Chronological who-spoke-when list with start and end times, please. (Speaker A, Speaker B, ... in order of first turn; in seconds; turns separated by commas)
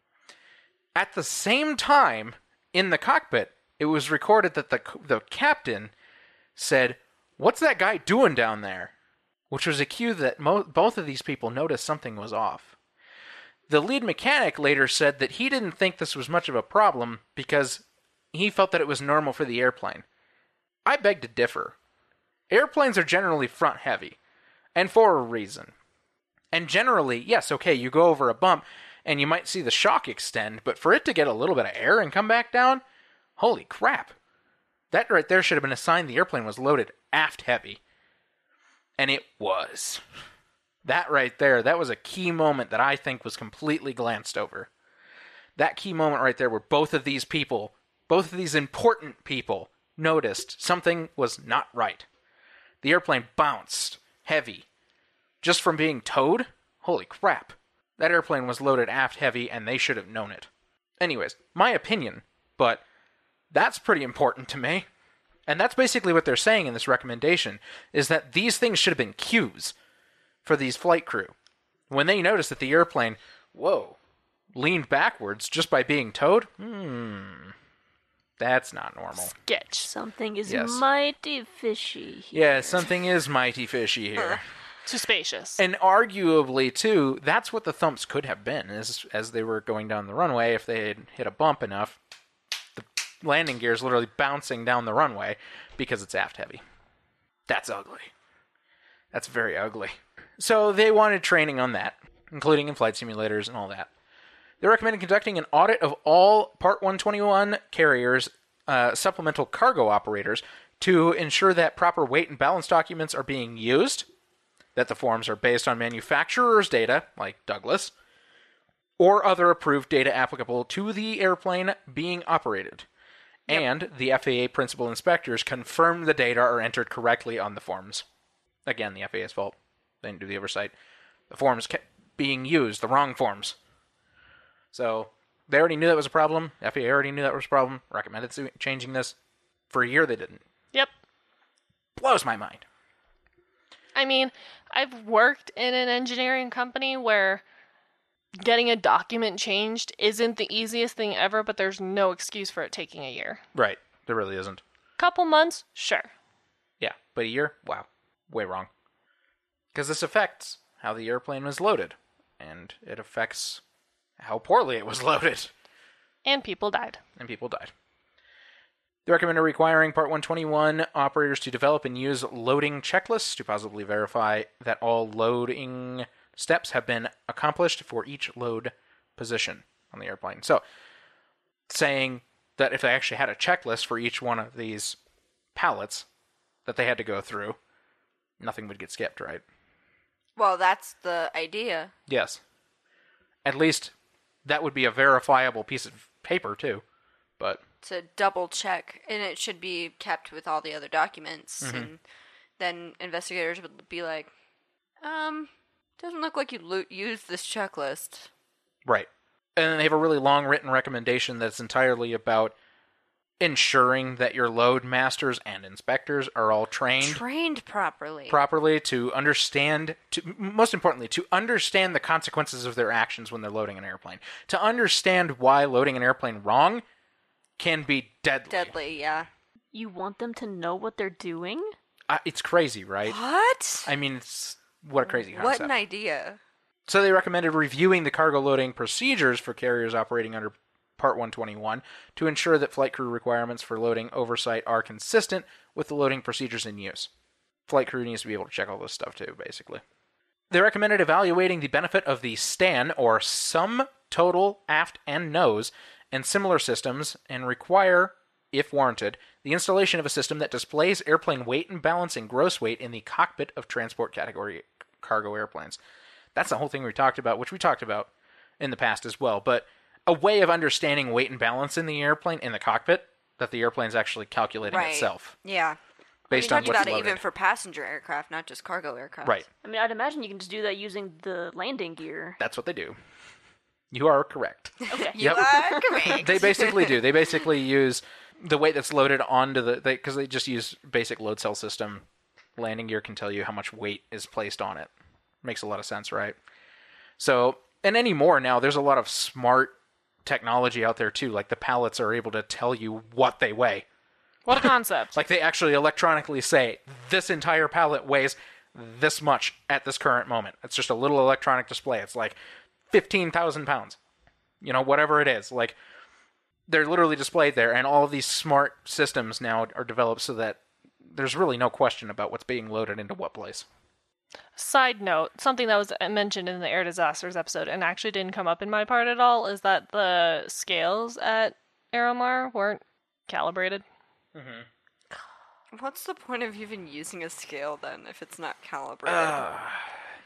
Speaker A: 0.9-5.9, Speaker A: 6.6-8.9, Speaker A: 9.5-12.7, Speaker A: 13.7-20.1, Speaker A: 20.9-21.8, Speaker A: 22.5-24.2, Speaker A: 24.8-25.7, Speaker A: 26.5-32.8, Speaker A: 33.4-34.1, Speaker A: 34.9-37.8, Speaker A: 39.0-40.0, Speaker A: 40.9-44.7, Speaker A: 45.6-52.1, Speaker A: 52.8-54.7, Speaker A: 55.4-60.5, Speaker A: 61.0-62.8, Speaker A: 63.5-64.9, Speaker A: 65.5-69.8, Speaker A: 70.5-71.3, Speaker A: 71.9-74.0, Speaker A: 74.5-77.5, Speaker A: 78.4-79.3, Speaker B: 79.2-79.9, Speaker C: 79.8-82.9, Speaker A: 80.5-80.8, Speaker A: 82.3-84.4, Speaker B: 84.9-85.6, Speaker A: 85.6-92.0, Speaker A: 92.8-96.6, Speaker A: 97.5-98.1, Speaker A: 99.1-103.9, Speaker A: 104.6-114.1, Speaker A: 114.8-117.9, Speaker A: 119.0-122.9, Speaker A: 123.5-128.1, Speaker A: 128.7-130.7, Speaker A: 131.3-133.6, Speaker A: 134.7-139.2, Speaker A: 139.7-140.4, Speaker A: 142.0-142.7, Speaker B: 143.9-147.4, Speaker B: 148.4-153.4, Speaker A: 153.6-154.6, Speaker B: 155.0-156.1, Speaker A: 156.8-158.7, Speaker A: 159.7-163.6, Speaker A: 164.2-165.5, Speaker B: 166.2-167.0, Speaker A: 167.2-167.7, Speaker A: 169.1-180.6, Speaker A: 181.7-185.0, Speaker A: 185.6-186.1, Speaker A: 186.7-187.6, Speaker A: 188.4-189.4, Speaker D: 190.4-191.9, Speaker A: 192.1-192.4, Speaker A: 193.4-193.9, Speaker A: 194.4-196.8, Speaker D: 197.8-202.0, Speaker A: 201.6-201.9, Speaker D: 202.6-204.3, Speaker D: 205.0-208.3, Speaker A: 208.9-212.6, Speaker A: 213.4-217.2, Speaker D: 217.0-218.4, Speaker A: 218.3-226.8, Speaker A: 227.6-228.8, Speaker D: 228.5-229.3, Speaker C: 229.7-231.7, Speaker A: 232.1-233.2, Speaker D: 233.1-233.9, Speaker A: 233.8-235.7, Speaker D: 235.1-236.4, Speaker A: 236.9-247.1, Speaker A: 247.7-249.8, Speaker A: 250.5-265.8, Speaker A: 266.4-268.1, Speaker A: 268.6-275.4, Speaker D: 274.7-279.4, Speaker A: 276.3-277.2, Speaker C: 279.6-282.4, Speaker A: 282.4-283.0, Speaker A: 283.9-292.1, Speaker D: 284.8-287.0, Speaker C: 284.9-286.2, Speaker A: 292.6-294.9, Speaker A: 295.4-296.4, Speaker A: 297.2-303.9, Speaker B: 304.5-305.2, Speaker A: 304.5-312.4, Speaker A: 312.9-314.0, Speaker A: 314.6-315.8, Speaker A: 316.7-323.7, Speaker B: 324.6-333.8, Speaker A: 334.4-334.7, Speaker D: 335.7-339.5, Speaker A: 339.1-340.0